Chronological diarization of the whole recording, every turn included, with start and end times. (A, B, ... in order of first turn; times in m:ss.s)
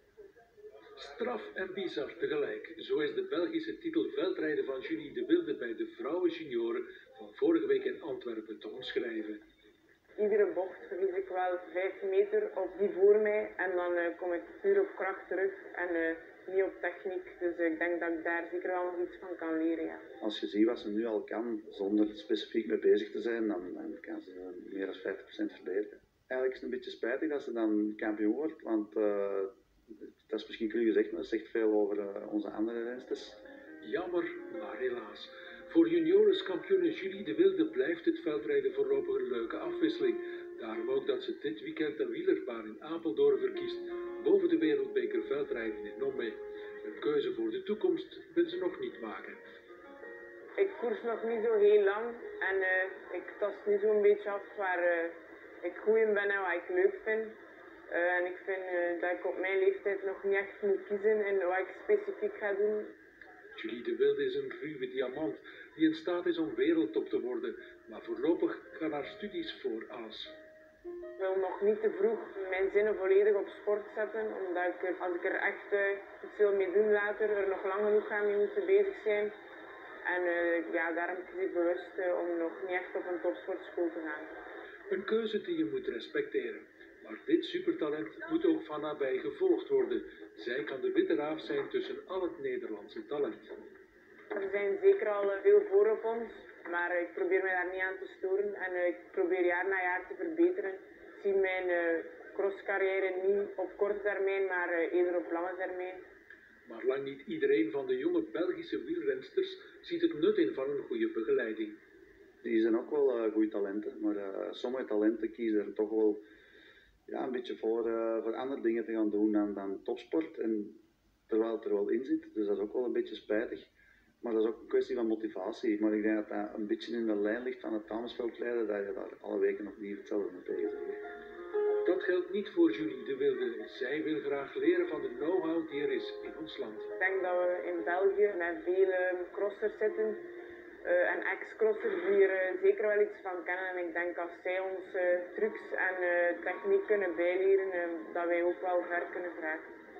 0:00.9-0:09.4 A
0:10.2-0:20.0 B
0:20.2-0:33.4 C
0:33.8-0:49.4 A
0:50.6-0:57.4 B
0:57.9-1:02.9 B
1:03.5-1:10.4 A
1:11.2-1:19.3 B
1:20.0-1:24.3 B
1:24.9-1:33.5 A
1:34.3-1:46.0 B
1:46.6-1:51.8 A
1:52.4-1:56.2 C
1:57.1-2:03.7 C
2:04.2-2:11.0 C
2:11.8-2:16.9 A
2:17.0-2:20.2 B
2:20.8-2:29.7 B